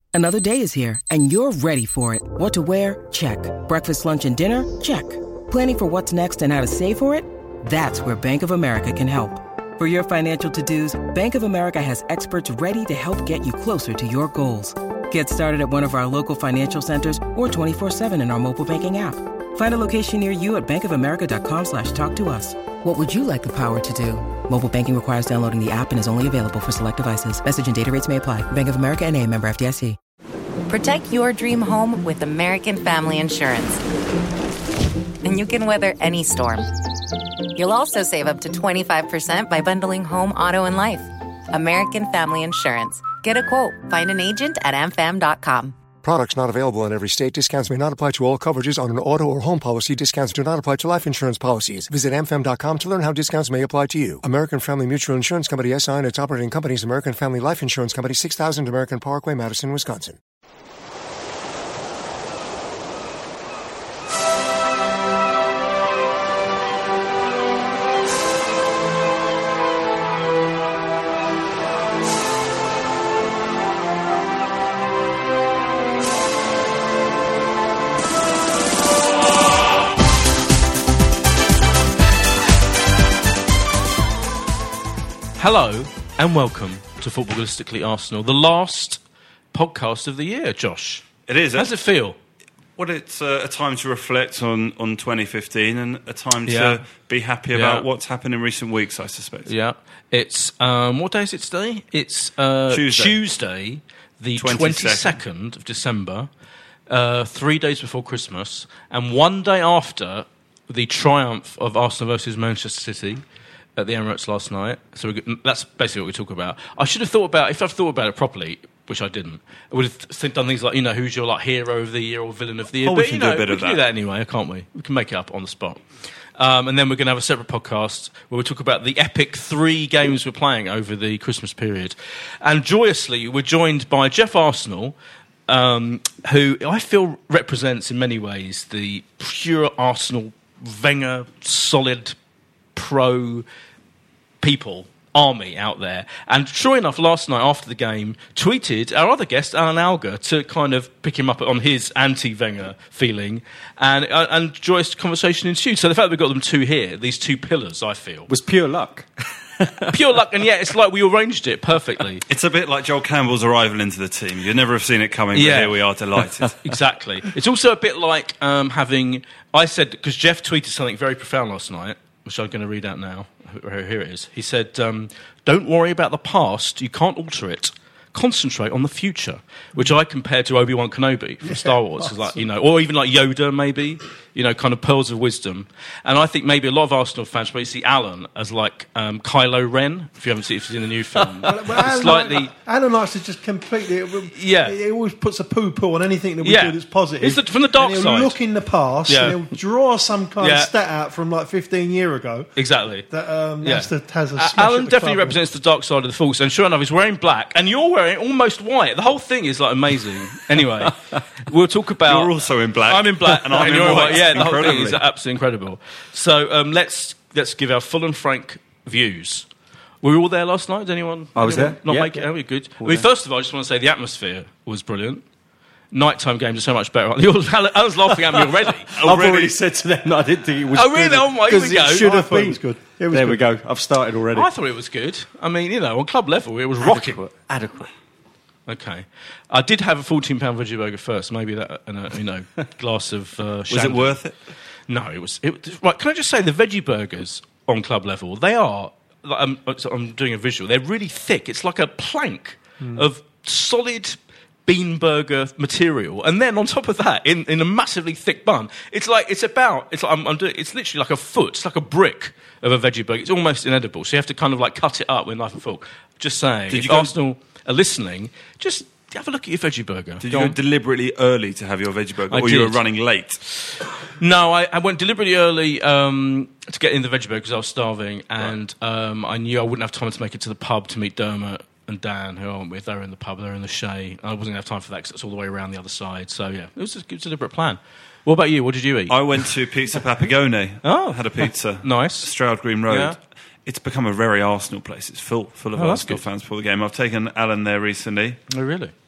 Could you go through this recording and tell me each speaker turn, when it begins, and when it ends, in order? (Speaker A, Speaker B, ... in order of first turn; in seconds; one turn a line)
Speaker A: 0.1-30.0
Speaker B: 30.7-33.8
Speaker B: 35.2-36.7
Speaker B: 37.5-45.8
Speaker C: 46.0-60.2
Speaker D: 85.4-89.0
Speaker D: 89.5-92.2
Speaker E: 91.3-91.7
Speaker E: 92.8-99.5
Speaker D: 96.5-96.8
Speaker D: 97.5-97.9
Speaker D: 99.5-106.3
Speaker E: 102.7-103.2
Speaker E: 104.4-105.2
Speaker D: 106.9-113.2
Speaker D: 113.8-125.8
Speaker E: 122.8-123.8
Speaker D: 126.4-134.9
Speaker D: 135.5-142.2
Speaker D: 142.8-143.4
Speaker D: 144.4-158.3
Speaker F: 158.3-159.9
Speaker D: 159.9-162.2
Speaker E: 162.3-166.6
Speaker D: 165.3-165.8
Speaker D: 166.6-192.5
Speaker G: 181.5-182.3
Speaker G: 191.4-202.5
Speaker D: 194.3-194.8
Speaker D: 196.4-198.4
Speaker D: 199.1-199.5
Speaker D: 200.4-200.7
Speaker D: 202.6-203.1
Speaker G: 203.1-205.4
Speaker D: 203.6-219.5
Speaker E: 212.1-215.0
Speaker F: 213.5-214.9
Speaker D: 220.0-225.2
Speaker F: 221.4-222.3
Speaker D: 225.9-228.9
Speaker F: 228.9-234.5
Speaker E: 229.0-229.6
Speaker D: 230.7-232.2
Speaker G: 231.5-233.4
Speaker D: 234.3-237.2
Speaker F: 236.8-237.9
Speaker D: 238.7-244.2
Speaker E: 243.7-244.3
Speaker D: 244.9-270.6
Speaker E: 266.7-267.1
Speaker E: 270.2-273.4
Speaker D: 272.3-272.8
Speaker D: 273.5-289.6
Speaker E: 289.1-298.4
Speaker D: 290.8-292.3
Speaker D: 292.9-293.2
Speaker D: 295.8-296.2
Speaker D: 298.5-298.9